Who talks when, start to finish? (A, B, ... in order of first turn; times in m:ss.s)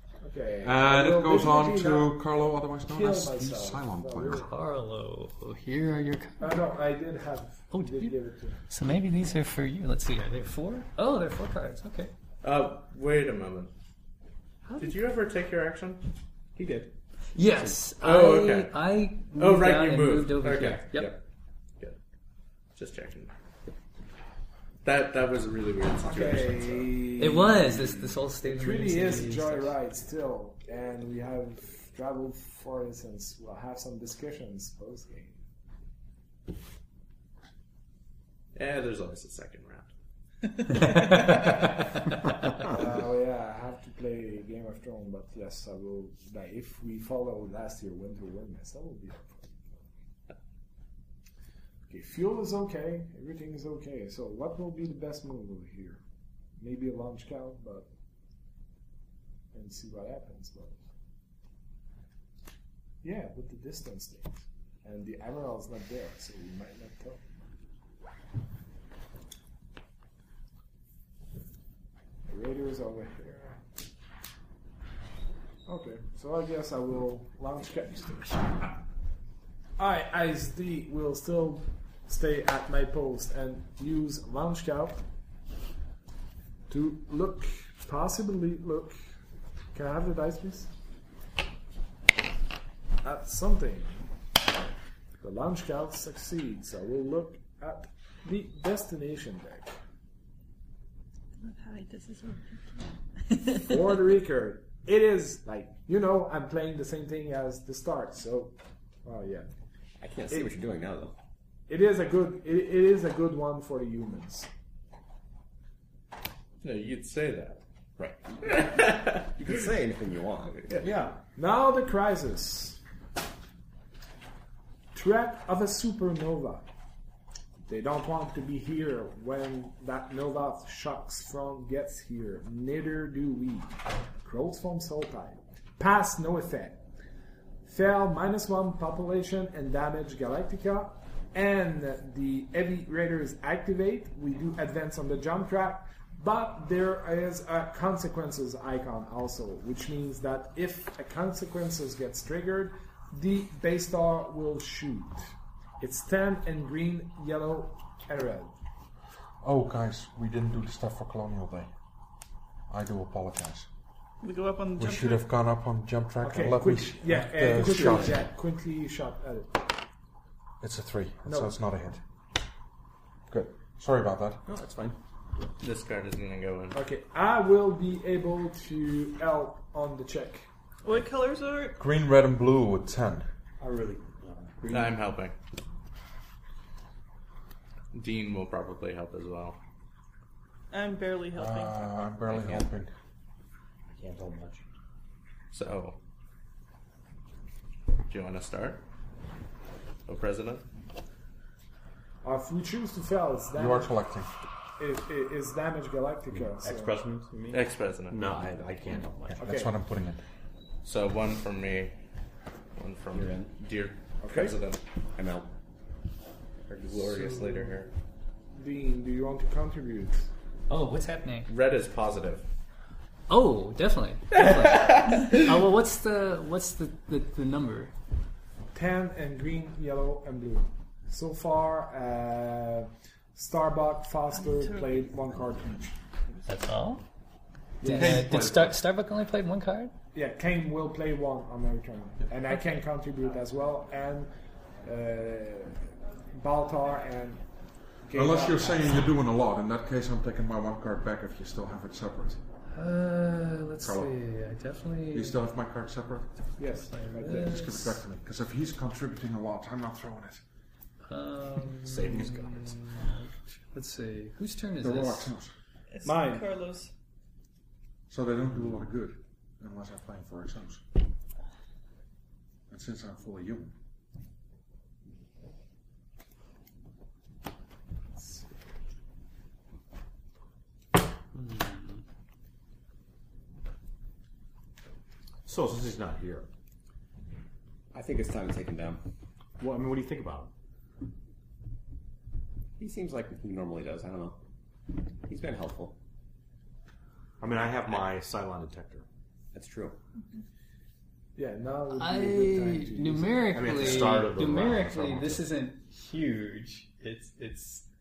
0:00.2-0:02.3 A
0:00.6-0:04.5 B
0:02.8-0:04.5 A
0:04.3-0:06.6 C
0:06.4-0:08.6 A
0:07.7-0:08.1 C
0:08.7-0:12.1 C
0:12.4-0:13.7 D
0:14.7-0:14.9 C
0:14.8-0:16.0 D
0:17.4-0:21.1 C
0:18.0-0:18.8 D
0:19.3-0:21.2 D
0:22.8-0:23.3 D
0:24.8-0:26.9 D
0:26.0-0:35.4 A
0:27.2-0:29.8 C
0:38.6-0:39.9 D
0:41.3-0:41.5 A
0:42.6-0:49.4 A
0:51.9-0:56.0 A
0:56.6-0:57.9 A
0:59.5-1:00.8 A
1:03.0-1:07.2 A
1:12.3-1:13.6 A
1:15.7-1:18.7 A
1:19.8-1:25.0 A
1:26.7-1:29.0 A
1:29.7-1:30.7 A
1:33.0-1:34.0 A
1:35.2-1:39.7 A
1:41.4-1:42.8 E
1:43.3-1:43.6 E
1:43.6-1:48.5 A
1:49.0-1:49.5 A
1:50.0-1:51.1 F
1:51.7-1:54.5 A
1:56.6-1:57.6 D
1:58.0-2:00.7 F
1:58.4-1:59.5 D
2:00.6-2:00.9 D
2:00.8-2:01.2 G
2:01.4-2:02.8 A
2:04.9-2:06.6 A
2:07.7-2:16.8 A
2:17.6-2:38.5 A
2:39.4-2:41.7 B
2:42.7-2:43.7 B
2:44.2-2:45.3 E
2:44.8-2:48.3 B
2:46.2-2:49.7 A
2:50.6-2:52.0 B
2:51.2-2:51.5 A
2:53.3-2:54.4 B
2:54.5-2:55.0 G
2:55.6-2:56.8 D
2:56.7-3:00.5 A
3:00.8-3:01.8 E
3:01.8-3:03.3 B
3:03.6-3:04.9 G
3:04.7-3:05.4 D
3:07.9-3:09.6 D
3:10.7-3:11.9 E
3:11.3-3:12.9 B
3:14.0-3:14.6 G
3:15.5-3:16.0 D
3:18.1-3:18.8 D
3:20.1-3:20.6 D
3:22.2-3:23.9 A
3:23.5-3:24.3 B
3:24.8-3:27.0 A
3:26.4-3:29.4 G
3:27.5-3:28.4 D
3:29.4-3:29.8 A
3:29.4-3:30.2 B
3:30.8-3:31.9 D
3:32.8-3:34.8 D
3:33.1-3:33.5 F
3:34.2-3:34.5 A
3:35.2-3:35.5 F
3:36.7-3:37.9 D
3:38.6-3:40.3 A
3:40.7-3:41.5 C
3:41.5-3:42.4 D
3:43.3-3:47.9 C
3:44.4-3:45.3 D
3:48.7-3:56.0 A
3:54.3-3:55.1 E
3:56.5-3:57.0 C
3:57.8-3:58.4 A
3:57.8-3:59.9 C
3:57.8-3:58.8 B
4:00.1-4:04.3 A
4:04.8-4:07.4 A
4:08.0-4:09.0 A
4:08.1-4:12.4 B
4:12.7-4:15.4 C
4:13.8-4:14.1 B
4:15.1-4:16.3 B
4:16.6-4:17.9 A
4:16.9-4:17.9 C
4:17.2-4:20.4 B
4:21.1-4:25.3 C
4:21.9-4:22.8 G
4:24.8-4:25.5 B
4:25.9-4:26.9 E
4:26.0-4:26.5 A
4:28.1-4:30.8 B
4:32.7-4:33.7 B
4:41.3-4:42.0 C
4:45.5-4:46.5 G
4:47.9-4:49.0 F
4:49.6-4:50.5 G
4:52.8-4:54.4 F
4:55.2-4:56.0 F
4:57.4-4:59.0 G
4:59.5-5:00.0 F
5:01.4-5:03.6 A
5:01.9-5:07.8 C
5:03.5-5:05.5 G